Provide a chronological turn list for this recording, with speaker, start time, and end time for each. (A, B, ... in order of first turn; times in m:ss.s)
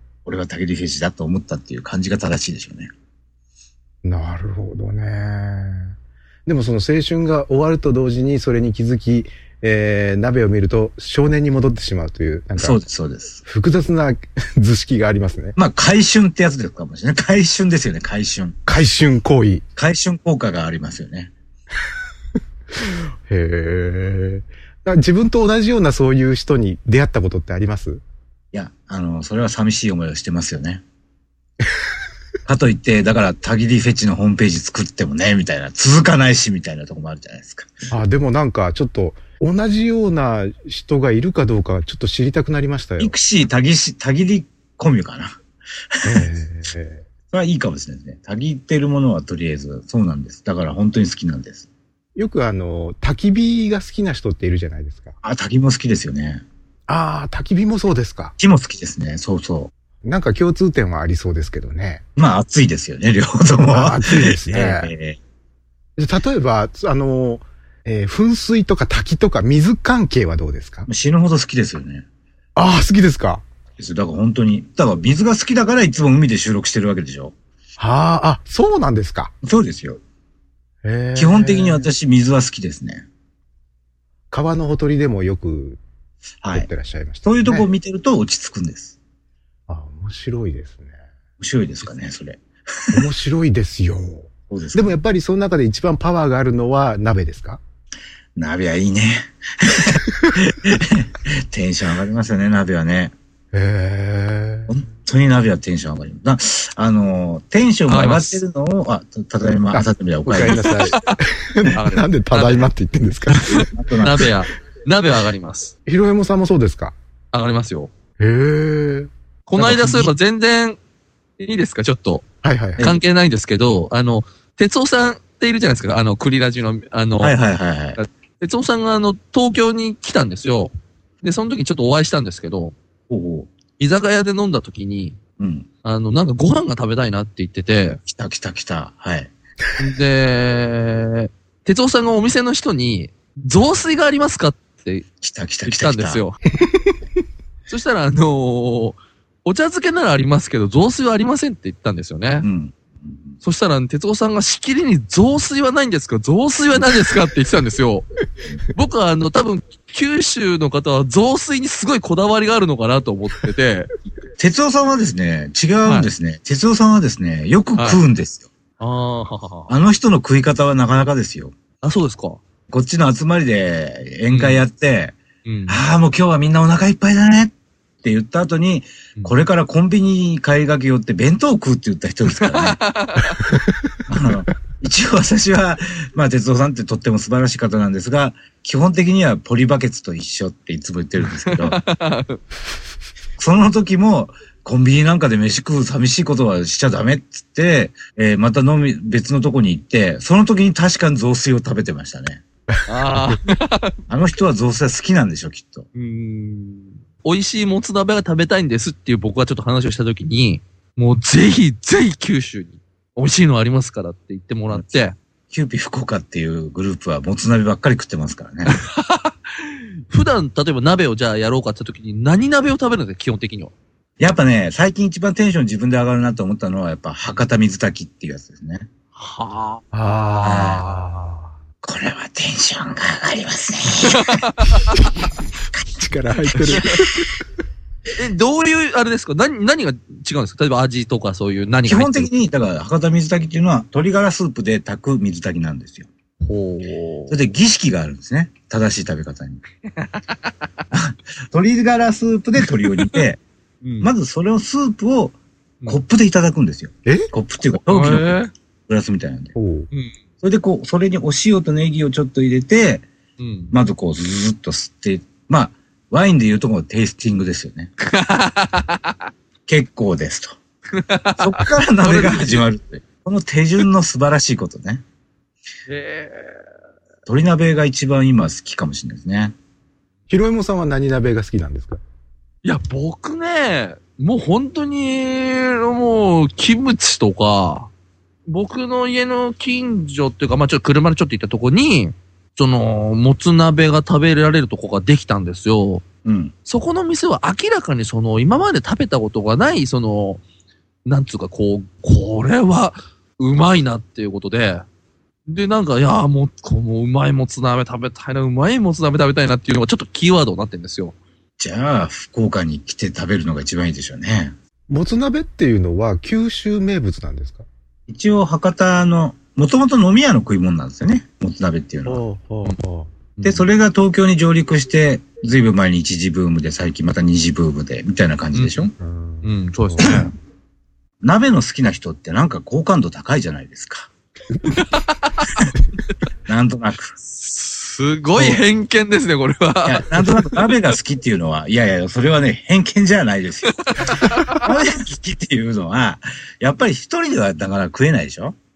0:00.2-0:02.9 A
0:04.0-0:05.9 B
0:06.4-0:12.8 B
0:12.6-0:13.4 A
0:13.4-0:15.6 B
0:15.6-0:18.6 A
0:18.6-0:19.6 B
0:19.8-0:21.3 A
0:23.2-0:28.0 B
0:28.5-0:30.8 A
0:32.4-0:37.7 A
0:37.9-0:43.1 B
0:43.0-0:45.4 A
0:46.0-0:47.0 B
0:47.3-0:51.7 A
0:52.2-0:55.2 B
0:55.2-0:56.4 A
0:56.9-0:58.3 B
0:58.4-0:59.7 A
1:00.0-1:02.0 B
1:02.2-1:05.2 A
1:03.6-1:04.9 B
1:06.0-1:10.9 B
1:10.9-1:12.0 A
1:12.6-1:13.4 B
1:13.8-1:17.3 A
1:17.8-1:19.3 B
1:19.4-1:20.0 A
1:20.8-1:21.9 B
1:21.1-1:23.0 A
1:24.3-1:25.8 B
1:26.4-1:26.7 A
1:26.5-1:27.7 B
1:27.2-1:29.0 A
1:29.7-1:30.9 B
1:31.4-1:33.1 A
1:32.9-1:37.6 B
1:34.5-1:35.0 A
1:38.4-1:43.1 A
1:43.5-1:44.7 B
1:44.7-1:50.9 A
1:47.9-1:48.4 C
1:49.7-1:53.4 B
1:50.5-1:51.2 C
1:51.7-1:52.7 C
1:53.3-1:55.7 C
1:53.5-1:54.3 A
1:55.8-1:56.9 B
1:57.3-1:57.9 C
1:58.2-1:59.1 B
1:59.5-2:00.8 C
1:59.6-2:00.1 A
2:01.4-2:02.2 C
2:02.4-2:03.0 B
2:02.8-2:07.3 C
2:07.2-2:08.0 A
2:08.0-2:12.7 C
2:13.1-2:13.5 A
2:13.8-2:15.2 C
2:15.4-2:15.7 A
2:15.8-2:18.0 C
2:18.0-2:19.3 A
2:19.8-2:25.0 C
2:25.2-2:26.2 A
2:25.7-2:26.4 C
2:27.7-2:32.4 C
2:32.4-2:33.4 A
2:33.4-2:38.1 C
2:38.7-2:43.9 C
2:44.4-2:48.4 A
2:45.8-2:46.1 C
2:47.8-2:48.0 C
2:48.8-2:49.7 C
2:49.7-2:51.5 A
2:51.8-2:52.4 C
2:52.7-2:55.2 A
2:54.3-2:54.6 C
2:55.4-2:55.8 C
2:55.7-3:02.8 A
3:02.4-3:03.5 C
3:03.7-3:03.9 B
3:04.1-3:11.8 A
3:11.3-3:12.4 C
3:13.4-3:22.4 A
3:22.8-3:23.9 C
3:24.1-3:25.9 A
3:25.9-3:35.1 C
3:34.7-3:38.7 A
3:38.6-3:43.7 C
3:44.2-3:48.9 A
3:49.2-3:49.8 C
3:49.9-3:51.5 B
3:50.4-3:50.8 A
3:50.5-3:50.9 C
3:51.8-3:54.4 A
3:54.0-3:54.9 C
3:55.9-3:57.4 B
3:56.5-3:56.8 A
3:58.2-4:02.3 C
4:01.8-4:06.1 A
4:06.4-4:07.4 C
4:07.3-4:09.6 A
4:10.9-4:13.4 A
4:13.8-4:14.1 C
4:14.0-4:19.5 A
4:17.9-4:18.5 C
4:19.5-4:19.9 B
4:20.4-4:23.1 A
4:23.4-4:23.7 C
4:23.7-4:27.9 A
4:28.1-4:29.2 C
4:29.7-4:30.6 A
4:31.0-4:32.7 C
4:31.4-4:35.0 A
4:35.9-4:36.6 C
4:37.2-4:39.5 A
4:40.3-4:42.0 B
4:42.6-4:47.9 C
4:48.5-4:56.0 C
4:56.2-4:56.5 A
4:56.6-5:00.4 C
5:01.0-5:04.8 C
5:05.4-5:11.2 C
5:11.6-5:14.5 A
5:14.9-5:17.6 B
5:18.1-5:22.2 A
5:22.0-5:23.1 B
5:23.4-5:23.7 C
5:23.4-5:28.9 A
5:28.5-5:28.9 C
5:29.0-5:30.1 B
5:29.4-5:30.2 C
5:30.0-5:30.3 A
5:31.2-5:34.1 A
5:34.6-5:35.5 C
5:36.4-5:37.1 A
5:37.3-5:40.7 C
5:38.3-5:38.6 A
5:39.8-5:48.6 A
5:43.9-5:44.6 C